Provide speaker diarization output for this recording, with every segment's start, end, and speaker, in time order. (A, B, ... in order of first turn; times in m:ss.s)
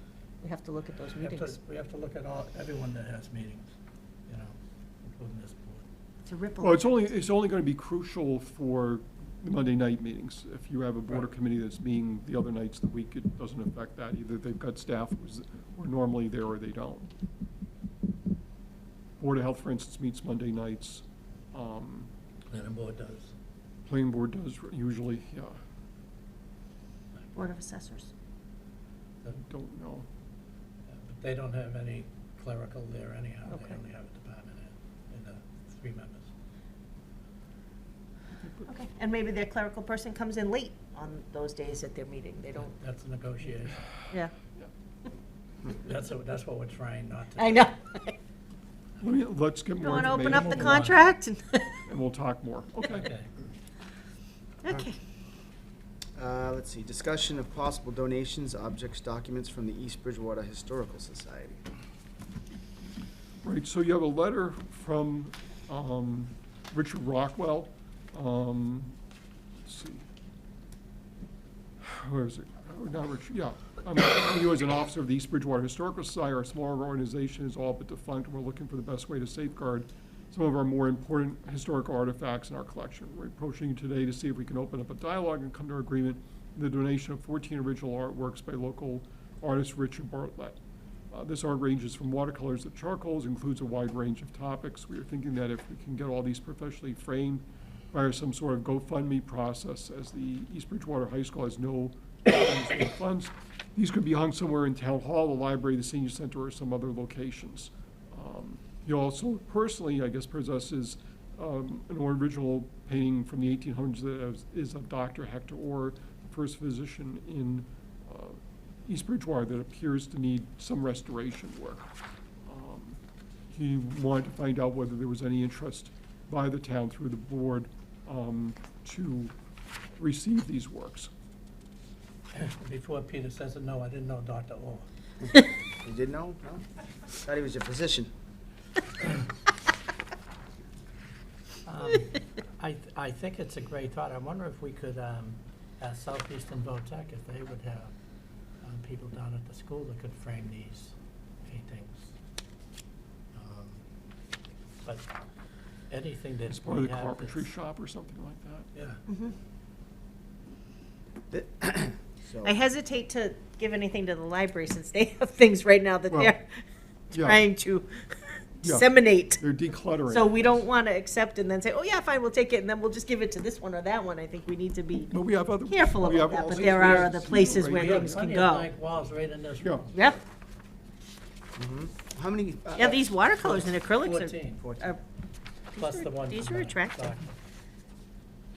0:00.4-0:01.6 A
0:01.2-0:03.7 B
0:04.3-0:05.8 B
0:06.2-0:07.0 A
0:06.6-0:17.1 C
0:19.2-0:22.1 C
0:22.5-0:23.3 B
0:23.8-0:25.6 C
0:27.3-0:28.1 A
0:29.2-0:29.5 B
0:29.5-0:30.1 C
0:30.9-0:36.3 B
0:33.5-0:33.8 A
0:38.6-0:42.7 A
0:42.6-0:43.8 B
0:45.7-0:47.7 B
0:47.4-0:48.2 A
0:49.0-0:51.0 C
0:49.8-0:51.8 A
0:49.9-0:51.0 B
0:51.9-0:53.1 C
0:52.9-0:53.3 B
0:54.6-0:55.0 A
0:56.2-1:01.6 D
1:03.4-1:09.0 C
1:09.6-1:10.0 C
1:11.8-1:30.6 C
1:31.1-2:01.9 C
2:02.4-2:03.0 C
2:03.5-2:09.3 C
2:10.0-2:11.1 C
2:12.3-2:14.9 B
2:15.8-2:16.6 D
2:17.2-2:18.1 D
2:21.6-2:27.9 B
2:28.6-2:30.9 B
2:31.4-2:32.1 B
2:33.3-2:33.8 B
2:34.8-2:35.1 B
2:35.9-2:37.5 B
2:36.5-2:38.7 C
2:38.7-2:39.0 B
2:39.1-2:39.3 A
2:41.3-2:42.6 D
2:42.4-2:46.6 A
2:46.1-2:46.3 C
2:47.1-2:47.4 C
2:47.1-2:49.4 A
2:48.6-2:50.5 C
2:50.1-2:55.1 A
2:55.1-2:58.2 C
2:55.6-2:58.7 A
2:56.0-2:57.0 D
2:56.8-2:57.1 B
2:57.6-3:00.0 B
2:59.6-2:59.9 C
2:59.9-3:00.2 A
3:01.6-3:03.0 D
3:02.8-3:05.0 A
3:03.4-3:04.6 B
3:04.6-3:04.9 D
3:05.7-3:07.2 A
3:05.7-3:07.3 B